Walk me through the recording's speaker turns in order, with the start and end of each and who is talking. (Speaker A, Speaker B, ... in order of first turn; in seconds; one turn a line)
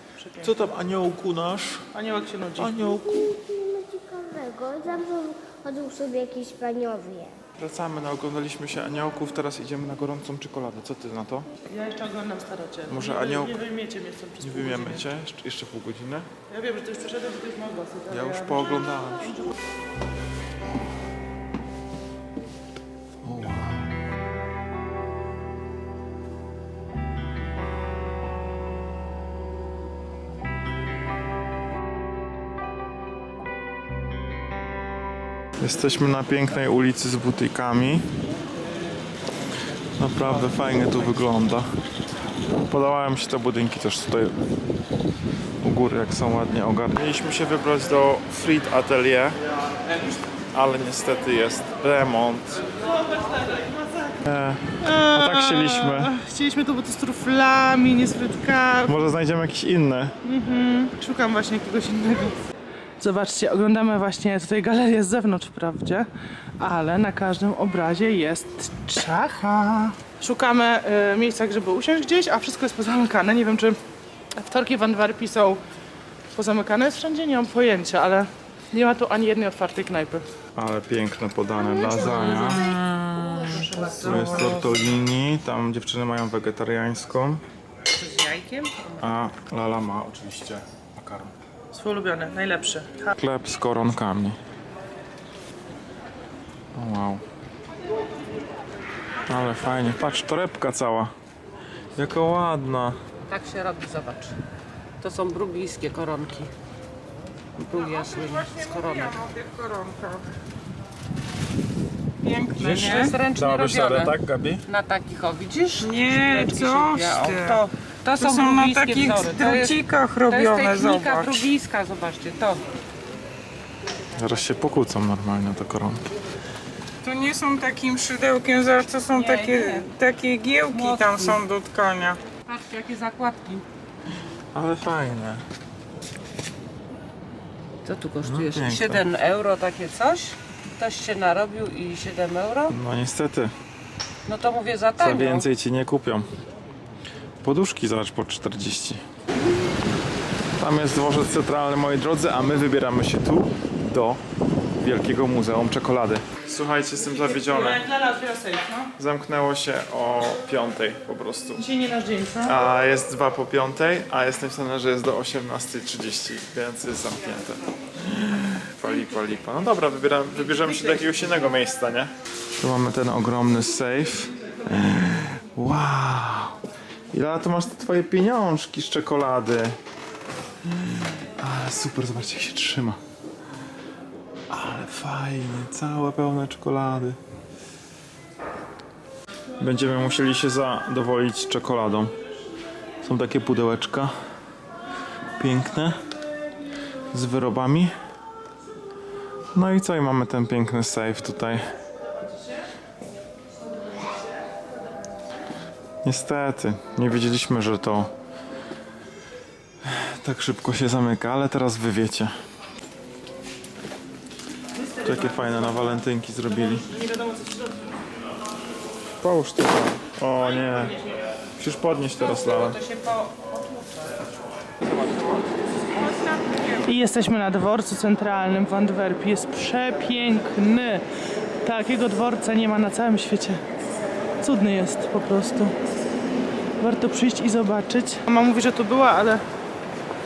Speaker A: 0.2-0.5
Speaker B: 0.4-1.9
Speaker A: 1.9-2.8
Speaker B: 2.6-3.3
Speaker C: 3.1-7.4
Speaker B: 7.6-11.5
Speaker A: 11.7-15.1
Speaker B: 12.9-13.6
Speaker B: 14.4-16.3
Speaker A: 16.5-18.9
Speaker B: 18.1-19.4
Speaker B: 23.2-23.9
Speaker B: 35.6-38.1
Speaker B: 40.0-41.7
Speaker B: 42.5-44.4
Speaker B: 45.6-49.4
Speaker B: 50.5-52.6
Speaker B: 54.2-56.2
Speaker A: 54.8-59.0
Speaker B: 58.9-60.1
Speaker A: 60.2-62.4
Speaker A: 63.0-66.1
Speaker A: 66.6-73.8
Speaker A: 74.3-75.6
Speaker A: 76.3-80.3
Speaker B: 80.5-87.4
Speaker D: 81.8-82.8
Speaker D: 83.4-84.8
Speaker D: 88.0-89.0
Speaker B: 89.0-91.3
Speaker A: 91.7-93.1
Speaker B: 93.1-94.4
Speaker B: 96.7-97.2
Speaker B: 99.3-101.1
Speaker B: 102.0-103.0
Speaker D: 103.3-104.3
Speaker D: 105.0-106.5
Speaker D: 107.6-109.3
Speaker E: 108.2-110.2
Speaker E: 112.2-113.2
Speaker B: 112.5-114.7
Speaker D: 112.6-122.6
Speaker E: 115.8-117.6
Speaker E: 118.1-121.5
Speaker B: 124.1-126.0
Speaker E: 127.0-132.2
Speaker D: 129.1-129.8
Speaker D: 130.7-131.4
Speaker D: 132.4-133.6
Speaker B: 134.5-135.4
Speaker D: 137.8-142.7
Speaker B: 138.2-139.0
Speaker B: 142.7-143.5
Speaker D: 144.2-145.5
Speaker B: 145.0-146.3
Speaker B: 147.4-149.0
Speaker B: 150.6-154.2
Speaker B: 154.8-157.8
Speaker A: 157.2-158.9
Speaker B: 159.0-161.6
Speaker A: 161.6-162.6
Speaker B: 162.4-179.8
Speaker B: 180.6-183.0
Speaker B: 184.5-187.2
Speaker B: 189.6-192.1
Speaker B: 193.0-194.1
Speaker B: 195.4-196.0
Speaker B: 197.1-197.9
Speaker B: 199.5-201.6
Speaker B: 206.0-208.1
Speaker B: 209.8-212.3
Speaker B: 215.0-216.9
Speaker A: 216.8-217.7
Speaker B: 219.2-221.0
Speaker B: 221.6-222.8
Speaker D: 222.8-223.5
Speaker A: 226.7-231.0
Speaker A: 231.6-233.6
Speaker A: 234.4-235.8
Speaker A: 236.8-239.4